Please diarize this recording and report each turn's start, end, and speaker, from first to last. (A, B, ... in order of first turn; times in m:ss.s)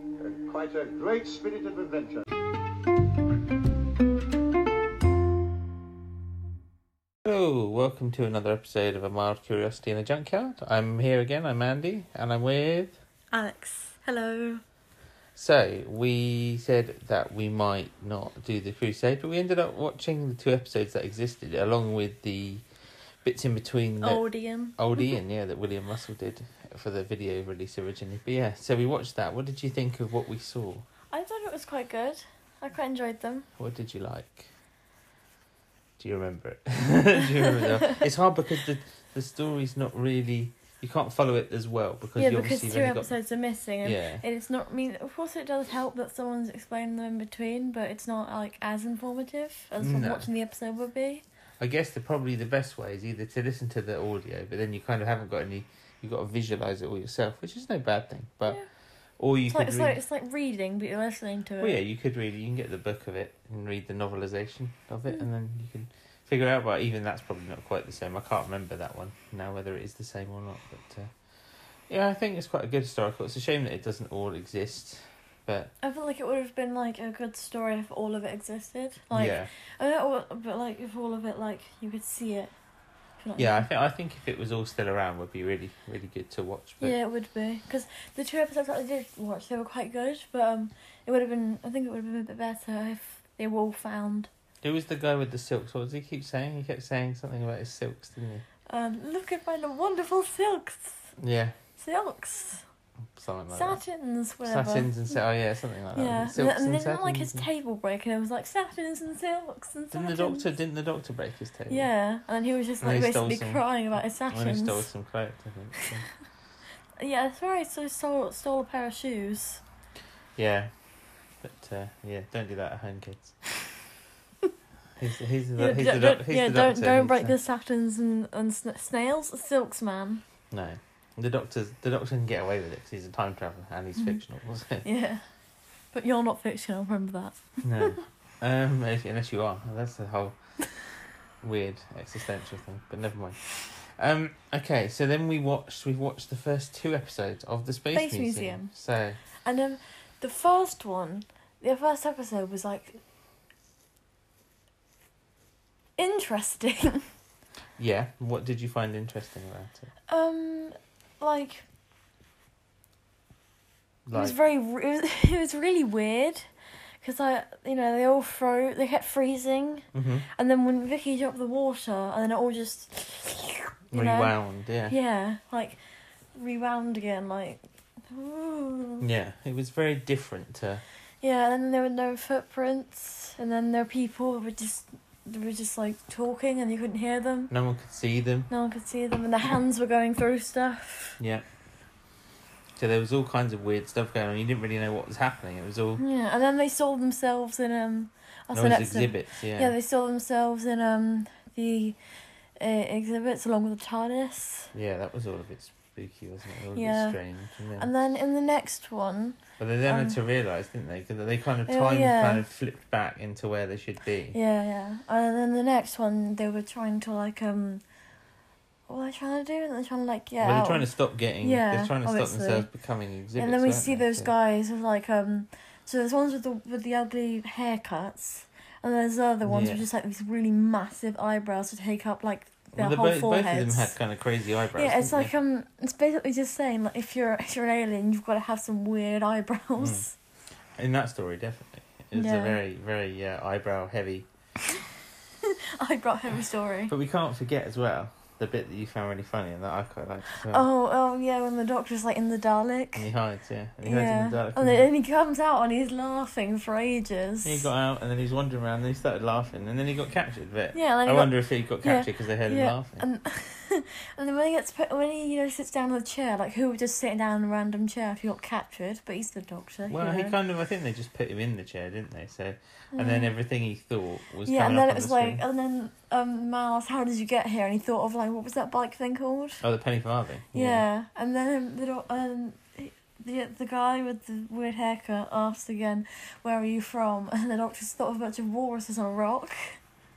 0:00.2-0:02.2 A
0:07.2-0:13.0 B
0:13.3-0:14.6 C
0:15.4-0:22.6 B
0:23.2-0:24.2 B
0:24.0-0:25.1 C
0:24.8-0:30.8 B
0:31.1-0:33.5 C
0:33.6-0:34.5 B
0:36.0-0:43.1 B
0:37.2-0:38.0 C
0:42.2-0:51.2 C
0:43.8-0:44.2 B
0:49.8-0:50.3 B
0:51.6-0:58.6 B
0:59.2-1:00.0 B
0:59.5-1:01.8 C
1:01.6-1:11.1 B
1:11.9-1:15.7 B
1:15.8-1:22.5 C
1:19.1-1:19.5 B
1:23.2-1:23.6 C
1:23.4-1:27.0 B
1:26.8-1:34.3 C
1:34.6-1:38.4 B
1:38.7-1:41.0 C
1:41.2-1:41.5 B
1:41.8-1:42.6 C
1:43.2-1:43.8 B
1:43.5-1:45.0 C
1:44.4-1:47.4 B
1:45.9-1:50.5 C
1:49.9-1:51.9 B
1:51.7-1:54.9 C
1:52.8-1:53.6 B
1:54.3-1:56.0 B
1:55.8-1:56.0 C
1:57.0-1:59.6 C
2:00.4-2:00.7 B
2:01.4-2:03.3 B
2:05.0-2:07.3 B
2:05.6-2:10.2 C
2:10.5-2:14.8 B
2:14.8-2:15.2 C
2:15.9-2:18.0 C
2:17.6-2:20.4 B
2:21.4-2:29.2 B
2:27.9-2:28.7 C
2:29.4-2:33.0 C
2:36.0-2:37.0 C
2:37.8-2:39.9 B
2:40.1-2:41.6 C
2:44.1-2:44.4 B
2:44.1-2:46.5 C
2:47.0-2:54.3 C
2:49.9-2:50.2 B
2:53.9-2:55.0 B
2:54.9-2:55.8 C
2:56.3-2:59.0 C
2:59.0-3:00.8 B
3:01.2-3:07.5 C
3:07.5-3:08.5 B
3:08.5-3:11.2 C
3:11.2-3:11.4 B
3:12.8-3:16.0 B
3:16.0-3:22.0 C
3:18.5-3:19.7 B
3:22.6-3:24.7 C
3:24.7-3:27.9 B
3:26.7-3:27.2 C
3:27.8-3:30.2 C
3:29.6-3:34.4 B
3:31.6-3:32.4 C
3:34.3-3:37.8 C
3:38.9-3:40.9 C
3:40.4-3:44.3 B
3:41.4-3:42.7 C
3:43.4-3:54.0 C
3:49.4-3:49.8 B
3:52.7-3:55.3 B
3:54.7-4:00.1 C
3:59.8-4:00.0 B
4:00.8-4:04.2 B
4:02.1-4:02.6 C
4:05.4-4:06.9 C
4:06.9-4:10.6 B
4:10.4-4:13.1 C
4:12.9-4:14.9 B
4:13.8-4:17.7 C
4:17.4-4:23.0 B
4:20.7-4:30.4 C
4:29.9-4:35.4 B
4:32.9-4:33.3 C
4:34.4-4:39.6 C
4:39.6-4:40.8 B
4:40.5-4:49.8 C